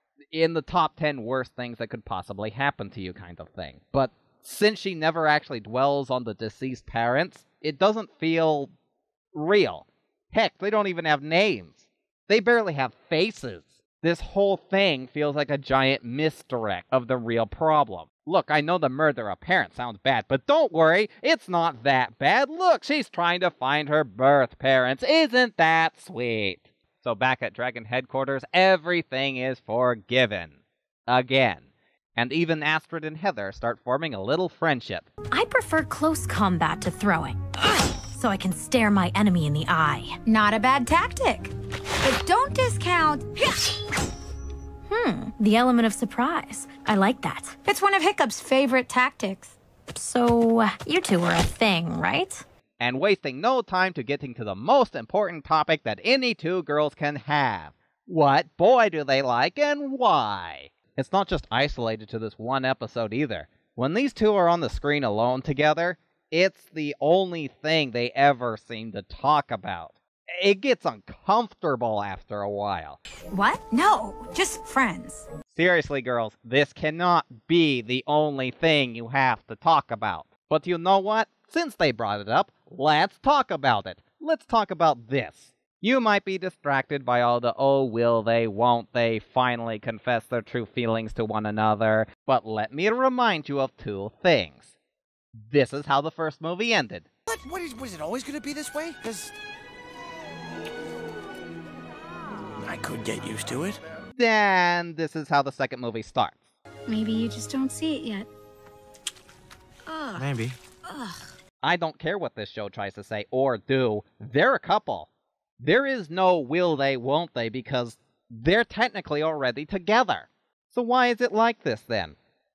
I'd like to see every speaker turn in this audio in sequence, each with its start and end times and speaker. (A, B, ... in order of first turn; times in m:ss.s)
0:00.3-0:08.7 A
0:09.3-0:30.6 A
0:31.1-0:35.1 A
0:35.3-0:37.4 B
0:38.1-0:40.2 B
0:40.2-0:43.7 C
0:44.9-0:47.6 B
0:47.6-0:49.6 C
0:49.9-0:52.4 B
0:52.8-1:13.0 A
1:13.3-1:15.3 C
1:15.5-1:34.7 A
1:35.4-1:37.1 A
1:37.3-1:39.3 D
1:42.7-1:43.8 D
1:44.2-1:46.5 A
1:46.9-1:48.3 C
1:49.9-1:50.2 C
1:50.1-1:50.6 D
1:50.9-1:51.2 C
1:51.6-1:55.1 A
1:55.6-2:02.2 A